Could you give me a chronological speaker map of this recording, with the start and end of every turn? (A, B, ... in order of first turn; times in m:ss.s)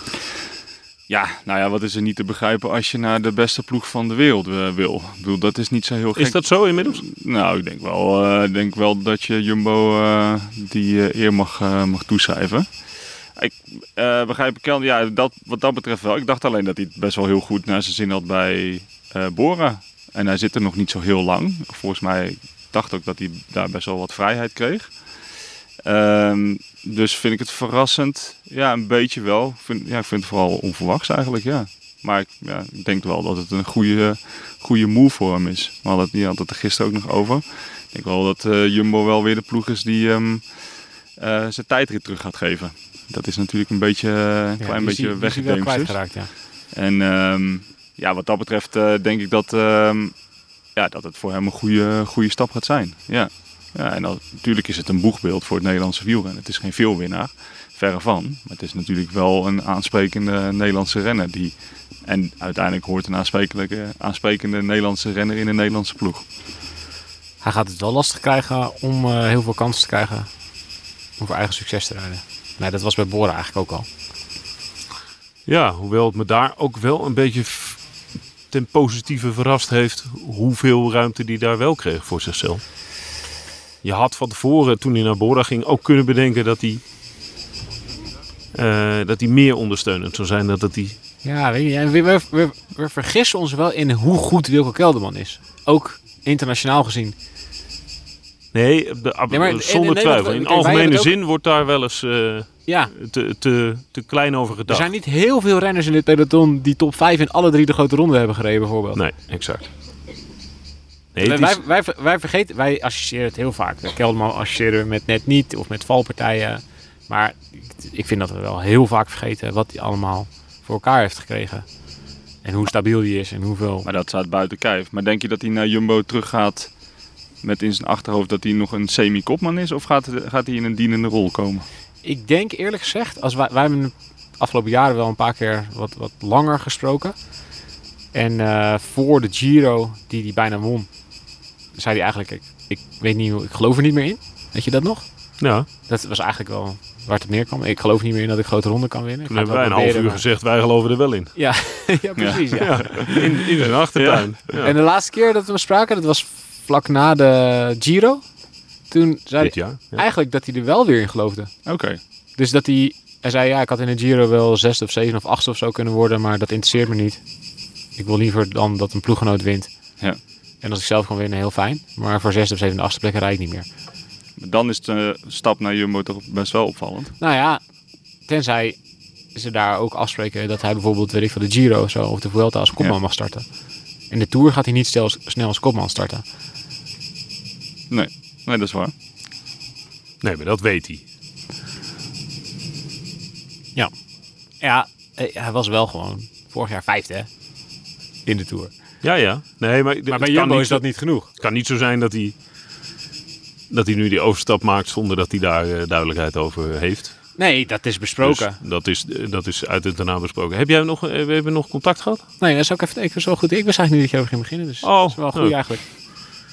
0:01.1-0:12.7 A
0:06.2-0:07.0 B
0:13.4-0:25.3 A
0:25.8-1:06.2 A
0:44.6-0:46.3 C
1:07.4-1:10.3 C
1:11.2-1:13.9 C
1:15.5-1:17.8 B
1:18.5-1:22.6 B
1:23.8-1:26.8 B
1:28.5-1:31.0 B
1:31.2-1:37.2 C
1:38.5-1:44.9 B
1:39.3-1:41.1 C
1:42.7-1:42.9 C
1:44.7-1:49.0 C
1:49.0-1:49.6 B
1:51.2-1:51.6 B
1:51.2-2:01.7 C
2:02.4-2:03.9 C
2:03.8-2:06.7 A
2:07.4-2:11.6 A
2:12.0-2:17.2 C
2:18.1-2:21.0 C
2:21.8-2:30.2 C
2:25.4-2:25.7 B
2:29.3-2:31.4 B
2:31.4-2:33.3 C
2:32.2-2:33.2 A
2:32.6-2:34.7 B
2:34.0-2:34.3 A
2:34.6-2:38.2 C
2:38.9-2:41.6 C
2:39.4-2:40.0 B
2:41.6-2:42.0 A
2:42.4-2:47.2 C
2:47.9-2:50.0 C
2:50.6-2:53.7 C
2:54.4-2:57.2 A
2:57.2-2:57.6 C
2:58.3-2:58.8 C
2:59.3-3:03.5 C
3:04.1-3:06.2 C
3:07.9-3:08.9 A
3:10.2-3:11.0 B
3:14.6-3:17.3 C
3:18.3-3:18.7 C
3:19.0-3:22.4 B
3:20.1-3:21.3 C
3:23.7-3:27.3 B
3:27.4-3:28.6 C
3:28.2-3:32.2 B
3:32.4-3:36.1 C
3:34.8-3:35.9 B